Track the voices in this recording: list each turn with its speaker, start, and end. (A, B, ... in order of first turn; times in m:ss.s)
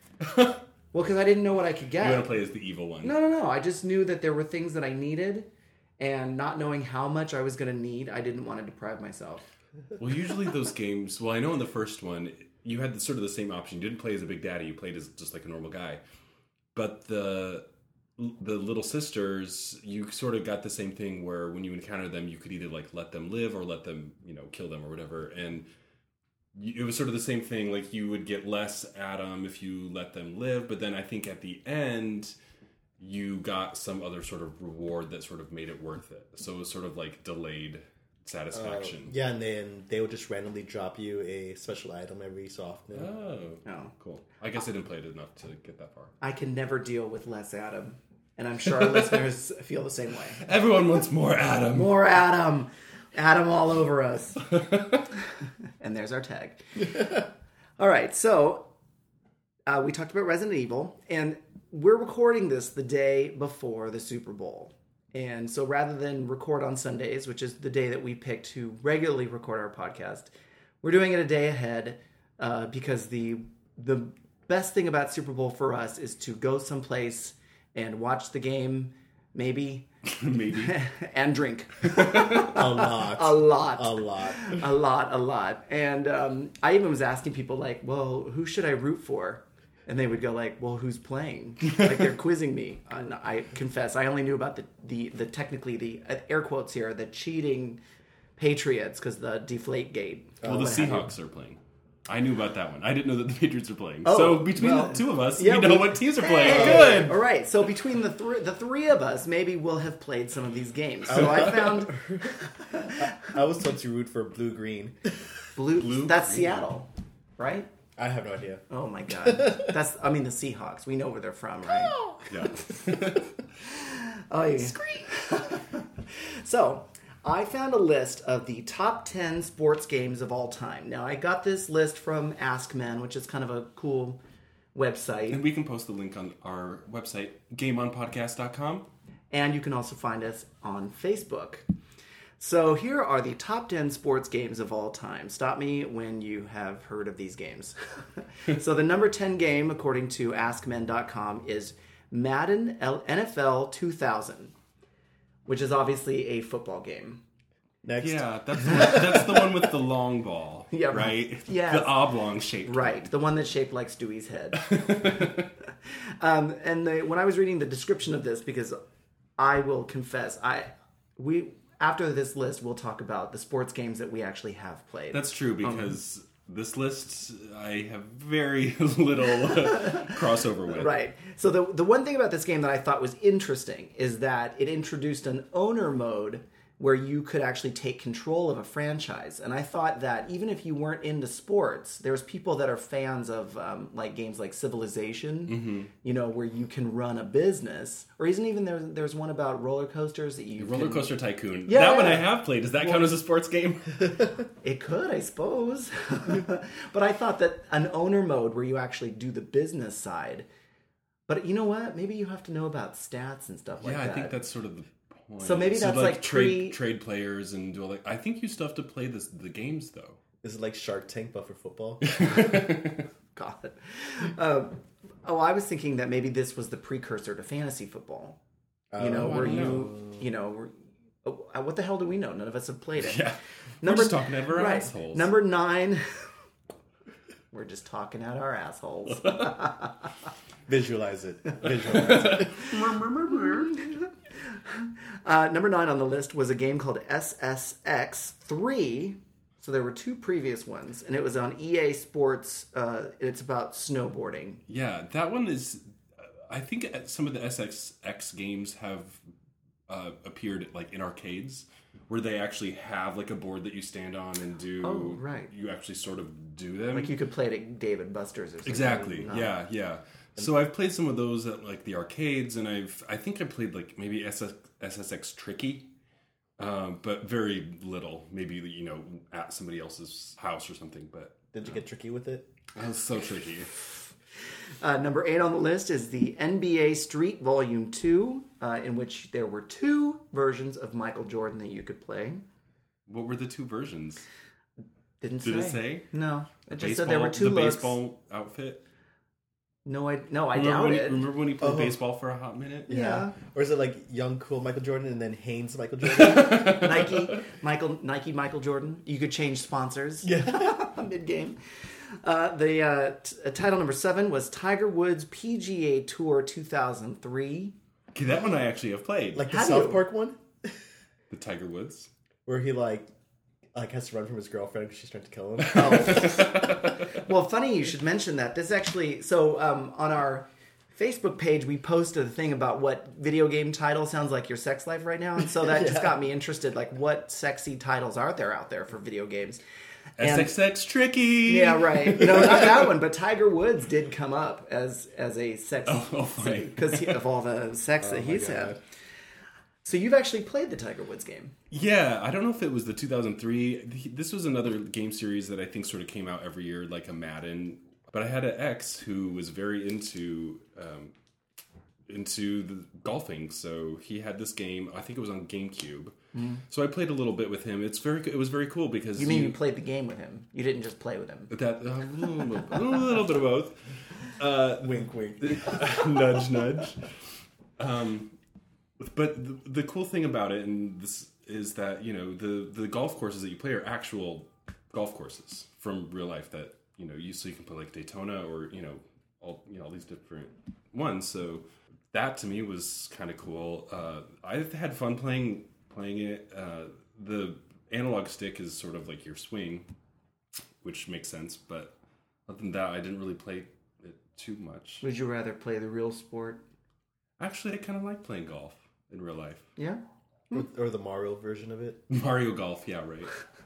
0:00.2-0:00.6 A
0:00.9-0:02.3 B
0:02.0-0:03.2 A
0:03.0-0:05.5 B
0:06.0-0:09.5 B
0:10.0-0:16.0 A
0:16.8-0:17.6 A
0:18.2-0:25.7 A
0:26.6-0:32.3 A
0:33.0-0:39.1 A
0:38.5-0:43.1 C
0:42.9-0:46.1 A
0:43.6-0:43.9 B
0:46.2-0:50.4 B
0:50.4-0:52.0 A
0:51.7-0:54.5 B
0:54.5-0:55.0 A
0:55.8-0:57.2 B
0:57.8-0:58.7 B
0:59.7-1:10.3 B
1:10.8-1:19.9 B
1:20.1-1:20.8 A
1:20.6-1:37.8 B
1:21.9-1:22.5 A
1:22.5-1:24.6 C
1:38.4-1:41.1 B
1:40.4-1:41.0 C
1:40.4-1:47.2 A
1:44.0-1:53.2 B
1:46.4-1:47.0 C
1:51.1-1:55.2 C
1:51.1-1:51.5 A
1:55.6-1:57.7 B
1:55.7-1:56.7 A
1:58.0-1:58.6 C
1:58.7-2:02.0 B
1:59.2-1:59.7 C
2:02.3-2:03.3 A
2:03.7-2:14.2 B
2:14.7-2:15.4 B
2:15.3-2:18.9 A
2:19.3-2:21.6 B
2:22.4-2:34.5 B
2:35.5-2:37.2 B
2:37.8-2:39.4 C
2:38.0-2:43.1 A
2:40.7-2:42.0 B
2:42.6-2:45.2 B
2:44.6-2:45.5 A
2:45.8-2:48.8 B
2:49.4-2:56.0 B
2:55.1-3:00.9 A
2:59.6-3:00.2 B
3:00.7-3:21.1 B
3:15.5-3:15.9 A
3:20.6-3:24.2 A
3:21.7-3:23.1 B
3:24.6-3:30.5 B
3:31.3-3:34.4 B
3:33.8-3:40.2 A
3:35.4-3:36.8 B
3:40.4-3:42.3 C
3:42.0-3:43.1 A
3:43.4-3:48.4 B
3:48.9-3:50.2 C
3:49.0-3:49.9 A
3:49.0-3:53.2 B
3:53.0-3:55.3 A
3:53.8-3:56.0 B
3:57.5-4:00.1 B
4:00.7-4:02.6 C
4:01.8-4:03.8 A
4:04.4-4:14.6 B
4:14.7-4:19.2 A
4:19.9-4:27.1 A
4:24.8-4:25.5 B
4:26.9-4:29.5 B
4:28.6-4:35.9 A
4:36.6-4:41.4 A
4:41.5-4:42.5 C
4:42.7-4:43.7 A
4:44.8-4:52.4 B
4:53.1-4:54.2 A
4:55.2-4:58.0 B
4:55.4-4:56.1 A
4:56.7-4:58.8 A
4:59.8-5:01.2 B
5:00.5-5:02.9 A
5:01.6-5:02.0 C
5:02.9-5:06.9 C
5:02.9-5:03.4 B
5:06.1-5:07.4 A
5:06.2-5:11.6 B
5:10.2-5:10.8 C
5:12.2-5:17.8 B
5:18.1-5:19.4 A
5:19.3-5:20.8 C
5:19.5-5:20.0 B
5:21.3-5:22.1 A
5:22.5-5:23.1 C
5:23.7-5:26.5 C
5:25.6-5:27.0 A
5:25.8-5:39.6 B
5:35.6-5:36.1 C
5:40.2-5:42.9 A
5:40.2-5:40.5 B
5:41.5-5:48.8 B
5:45.9-5:47.2 A
5:48.0-5:48.8 C
5:49.8-5:51.5 B
5:51.7-6:01.1 A
6:02.1-6:06.2 A
6:06.3-6:06.6 B
6:06.7-6:09.6 A
6:09.2-6:11.5 B
6:11.5-6:17.1 A
6:14.8-6:16.4 C
6:17.8-6:18.4 A
6:19.0-6:39.9 A
6:40.8-6:41.9 A
6:42.5-6:45.0 A
6:45.0-6:46.6 B
6:47.4-6:49.7 A
6:49.8-6:50.6 B
6:50.5-6:52.0 C
6:52.1-6:53.3 A